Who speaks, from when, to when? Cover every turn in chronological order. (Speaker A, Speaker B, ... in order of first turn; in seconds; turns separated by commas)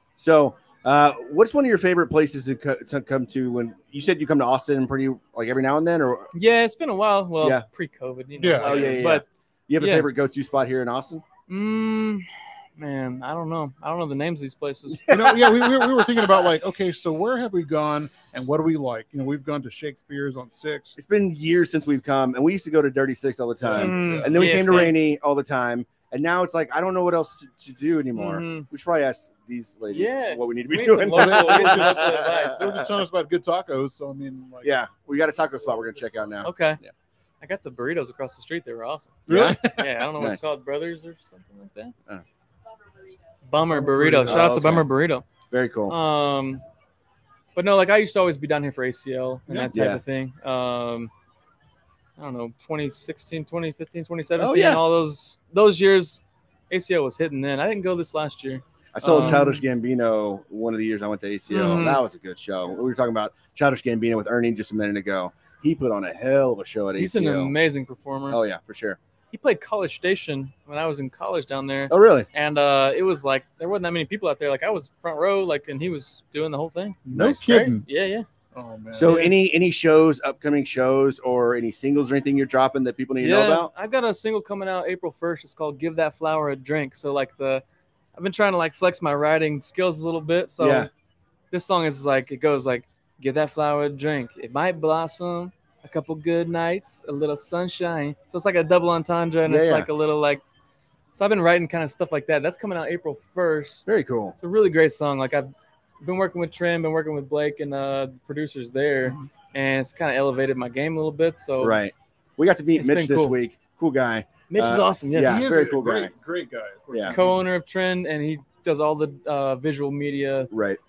Speaker A: 0.2-6.3, Speaker B: 6.3-9.2, Speaker A: 7.4-7.7, Speaker C: 8.4-9.0, Speaker A: 8.6-11.2, Speaker B: 9.8-10.1, Speaker B: 11.5-15.1, Speaker A: 14.9-16.5, Speaker C: 15.1-21.0, Speaker A: 21.0-33.0, Speaker C: 23.6-24.6, Speaker B: 23.8-25.0, Speaker B: 28.1-28.7, Speaker B: 29.9-32.7, Speaker C: 31.1-34.8, Speaker A: 34.6-36.9, Speaker B: 36.4-36.8, Speaker B: 37.4-42.0, Speaker C: 39.3-40.0, Speaker A: 39.3-39.6, Speaker A: 40.2-40.5, Speaker B: 43.5-45.2, Speaker C: 43.7-44.8, Speaker A: 44.3-44.9, Speaker A: 45.5-46.0, Speaker B: 45.9-46.6, Speaker B: 47.5-51.1, Speaker C: 49.5-49.7, Speaker A: 49.7-50.0, Speaker B: 52.2-59.5, Speaker A: 54.4-54.8, Speaker A: 58.9-67.5, Speaker C: 59.0-59.6, Speaker B: 61.5-62.0, Speaker B: 67.0-68.4, Speaker A: 68.3-69.0, Speaker B: 69.3-78.3, Speaker A: 71.9-72.3, Speaker C: 77.1-77.9, Speaker A: 77.1-77.5, Speaker C: 78.5-79.3, Speaker A: 78.9-83.7, Speaker B: 79.0-79.3, Speaker B: 83.2-87.6, Speaker B: 88.2-90.9, Speaker A: 90.6-90.9, Speaker B: 91.5-100.4, Speaker A: 99.5-99.9, Speaker B: 101.1-105.5, Speaker A: 103.9-104.4, Speaker B: 106.0-111.8, Speaker A: 111.6-116.1, Speaker B: 112.8-113.4, Speaker B: 114.5-115.5, Speaker C: 115.2-117.4, Speaker A: 116.9-117.2, Speaker B: 117.1-120.5, Speaker A: 120.5-120.8